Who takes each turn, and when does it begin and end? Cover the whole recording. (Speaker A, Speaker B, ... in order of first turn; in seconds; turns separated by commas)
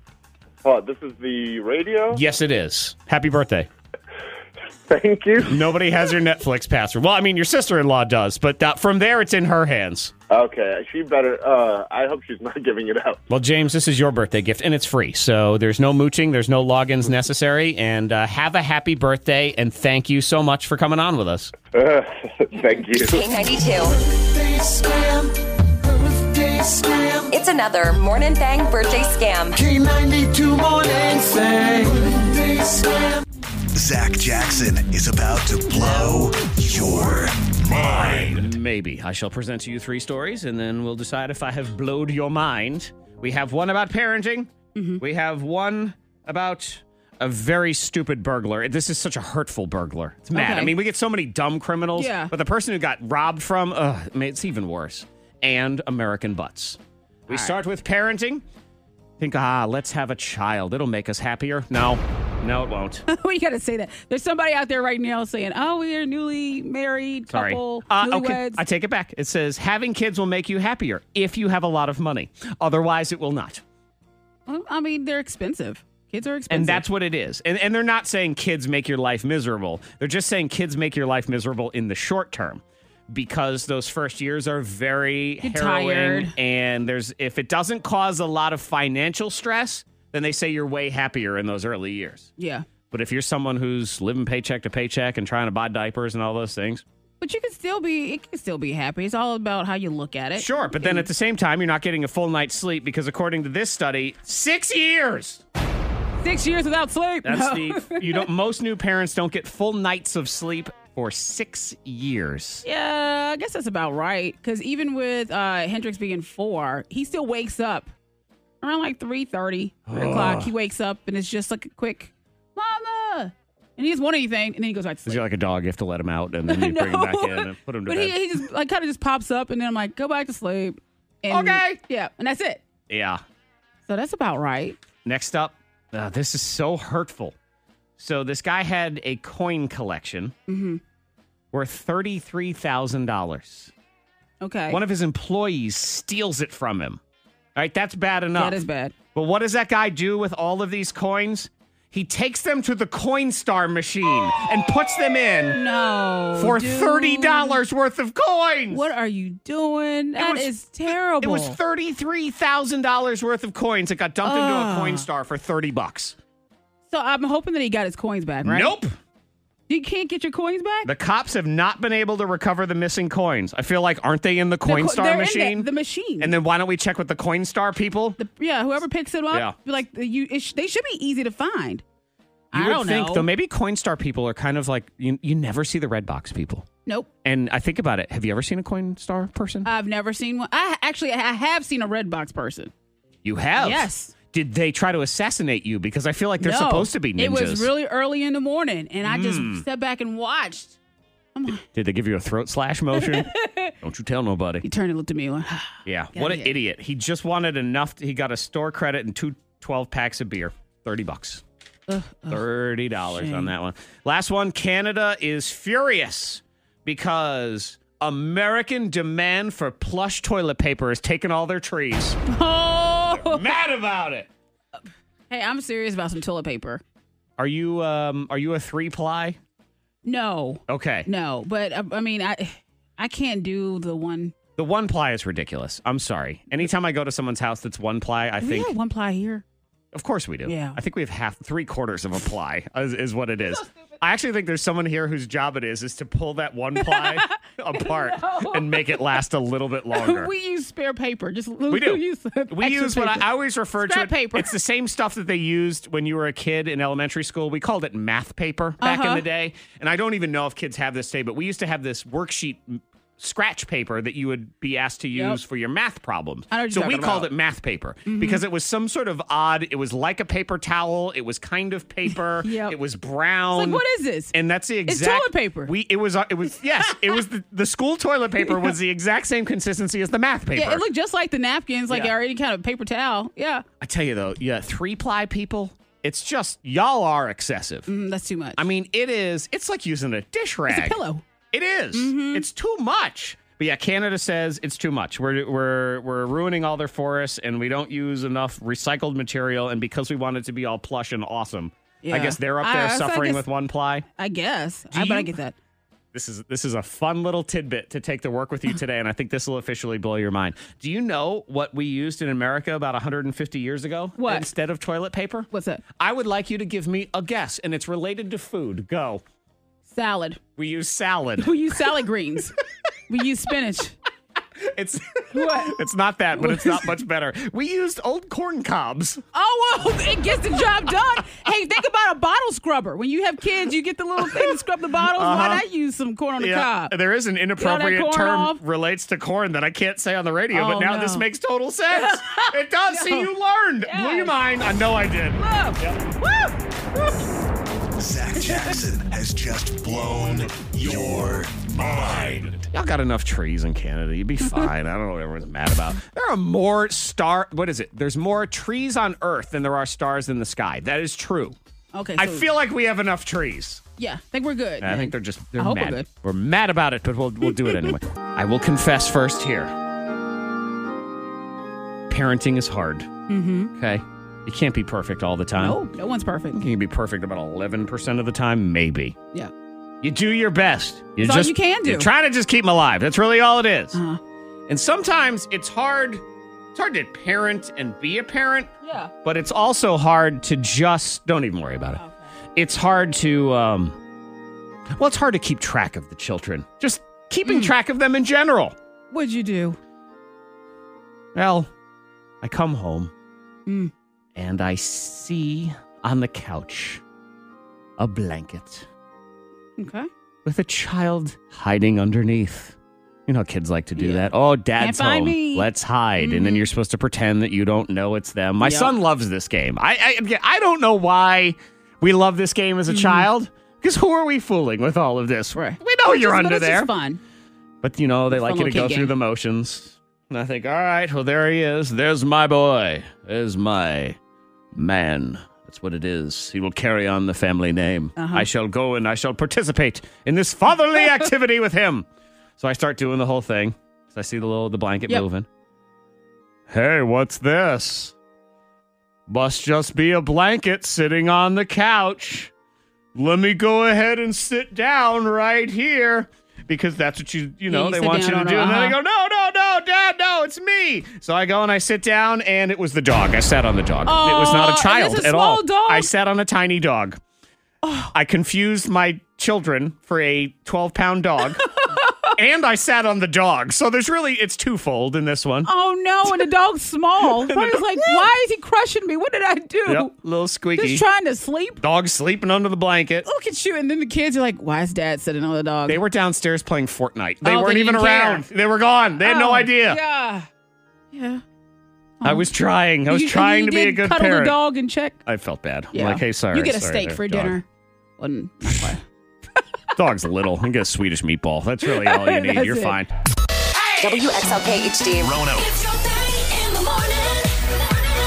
Speaker A: 0.6-2.2, Speaker B: 2.1-3.7, Speaker A: 4.9-5.6, Speaker B: 5.5-10.1, Speaker A: 10.3-13.2, Speaker B: 13.3-21.5, Speaker A: 21.7-23.2, Speaker C: 22.9-24.0, Speaker D: 24.0-25.3, Speaker D: 26.0-27.3, Speaker C: 27.3-29.6, Speaker D: 29.6-33.2, Speaker D: 33.8-38.5, Speaker B: 38.2-58.4, Speaker E: 44.8-45.0, Speaker E: 50.3-50.8, Speaker E: 52.0-52.3, Speaker E: 57.3-57.5, Speaker B: 59.2-63.0, Speaker E: 63.1-68.6, Speaker B: 67.3-73.6, Speaker E: 74.5-76.8, Speaker B: 76.5-92.3, Speaker E: 85.4-86.3, Speaker E: 92.4-92.7, Speaker B: 92.9-96.8, Speaker E: 97.2-101.1, Speaker B: 100.4-105.4, Speaker E: 106.2-108.3, Speaker B: 107.2-112.6, Speaker E: 112.6-117.9, Speaker E: 118.6-125.2, Speaker B: 119.9-120.5, Speaker B: 125.1-128.4, Speaker E: 126.5-132.6, Speaker B: 131.3-131.8, Speaker B: 132.9-133.2, Speaker E: 133.9-134.8, Speaker B: 135.1-137.3, Speaker B: 138.0-140.3, Speaker E: 140.5-140.8, Speaker B: 141.5-143.7, Speaker E: 144.4-144.8, Speaker B: 144.7-147.0, Speaker B: 147.6-148.6, Speaker E: 148.3-148.9, Speaker B: 149.1-155.6, Speaker E: 155.5-157.6, Speaker B: 156.4-158.9, Speaker E: 158.7-161.6, Speaker B: 160.2-160.5, Speaker B: 161.2-166.2, Speaker E: 164.2-165.1, Speaker E: 166.9-168.8, Speaker B: 168.4-168.9, Speaker E: 169.7-170.9, Speaker B: 170.8-175.7, Speaker E: 174.7-176.3, Speaker B: 176.2-178.2, Speaker E: 178.2-181.8, Speaker E: 182.5-183.3, Speaker B: 182.5-186.7, Speaker B: 187.2-189.7, Speaker E: 189.7-192.7, Speaker B: 193.2-197.7, Speaker E: 193.6-194.1, Speaker E: 196.4-200.8, Speaker B: 199.1-199.7, Speaker E: 201.3-201.6, Speaker B: 201.6-204.6, Speaker E: 203.0-203.8, Speaker E: 204.6-206.6, Speaker B: 205.9-211.4, Speaker E: 211.9-212.4, Speaker B: 212.3-222.2, Speaker E: 213.1-213.5, Speaker E: 222.3-223.4, Speaker B: 223.2-224.3, Speaker E: 225.3-226.8, Speaker B: 227.4-229.4, Speaker E: 230.1-234.3, Speaker B: 230.7-231.1, Speaker B: 234.6-238.7, Speaker E: 238.4-239.4, Speaker B: 239.9-250.3, Speaker E: 240.5-240.8, Speaker E: 246.8-249.0, Speaker E: 249.9-254.6, Speaker B: 251.7-280.9, Speaker E: 258.8-259.2, Speaker E: 265.1-265.4, Speaker E: 266.5-267.3, Speaker E: 268.1-268.4, Speaker E: 272.1-272.8, Speaker E: 273.5-274.3, Speaker E: 274.9-275.7, Speaker E: 278.5-278.7, Speaker E: 280.6-283.6, Speaker B: 283.8-287.9, Speaker E: 287.9-288.6, Speaker B: 288.6-291.0, Speaker E: 290.7-291.2, Speaker B: 291.5-304.1, Speaker E: 291.9-292.5, Speaker E: 302.0-303.4, Speaker E: 304.2-305.6, Speaker B: 304.9-305.3, Speaker B: 306.1-319.2, Speaker E: 314.2-314.5, Speaker E: 315.5-315.8, Speaker E: 319.9-320.4, Speaker B: 320.6-321.8, Speaker E: 321.4-322.6, Speaker E: 323.1-324.0, Speaker B: 324.6-329.2, Speaker E: 325.3-325.8, Speaker E: 326.4-326.9, Speaker E: 329.3-336.9, Speaker B: 334.3-335.6, Speaker B: 336.4-346.0, Speaker E: 337.6-338.6, Speaker E: 340.5-341.3, Speaker E: 341.9-343.3, Speaker E: 343.9-344.4, Speaker E: 345.4-347.2, Speaker D: 348.0-352.7, Speaker B: 352.7-361.6, Speaker E: 361.9-362.5, Speaker B: 362.2-363.8, Speaker E: 364.0-366.1, Speaker B: 364.8-369.7, Speaker E: 367.5-367.9, Speaker B: 372.1-373.1, Speaker E: 373.3-373.7, Speaker B: 373.8-375.8, Speaker E: 375.6-376.6, Speaker B: 376.5-379.2, Speaker B: 380.0-384.0, Speaker E: 381.2-382.1, Speaker E: 383.9-384.2, Speaker B: 384.7-386.2, Speaker B: 386.7-392.0, Speaker E: 388.8-389.1, Speaker E: 392.0-392.3, Speaker B: 392.6-394.0, Speaker B: 395.0-398.8, Speaker E: 397.4-397.7, Speaker E: 399.1-399.8, Speaker B: 401.4-401.7, Speaker B: 402.4-403.1, Speaker E: 403.7-403.9, Speaker B: 404.4-407.0, Speaker B: 408.0-408.9, Speaker E: 409.8-410.1, Speaker B: 410.4-412.8, Speaker B: 413.3-426.9, Speaker E: 414.0-415.7, Speaker E: 416.2-416.7, Speaker E: 418.6-418.9, Speaker E: 422.9-423.3, Speaker E: 425.6-427.2, Speaker B: 427.8-434.2, Speaker E: 428.3-429.1, Speaker B: 434.8-442.1, Speaker E: 438.2-438.5, Speaker B: 442.6-445.5, Speaker B: 446.7-448.1, Speaker B: 449.3-452.5, Speaker B: 453.1-467.2, Speaker E: 457.7-459.0, Speaker E: 464.1-466.1, Speaker E: 467.8-468.1, Speaker B: 468.1-471.7, Speaker E: 471.6-472.4, Speaker B: 472.3-475.7, Speaker E: 475.6-480.1, Speaker B: 477.3-478.3, Speaker B: 479.9-481.1, Speaker E: 480.8-481.8, Speaker B: 481.8-483.3, Speaker E: 483.2-486.0, Speaker B: 485.9-490.0, Speaker E: 487.4-488.5, Speaker E: 489.2-490.5, Speaker E: 491.1-491.4, Speaker E: 492.2-492.5, Speaker B: 492.2-494.6, Speaker E: 493.1-495.2, Speaker B: 495.2-497.6, Speaker E: 495.9-497.6, Speaker E: 498.2-499.0, Speaker B: 500.0-503.1, Speaker E: 501.8-503.0, Speaker C: 504.0-505.5, Speaker D: 505.2-505.8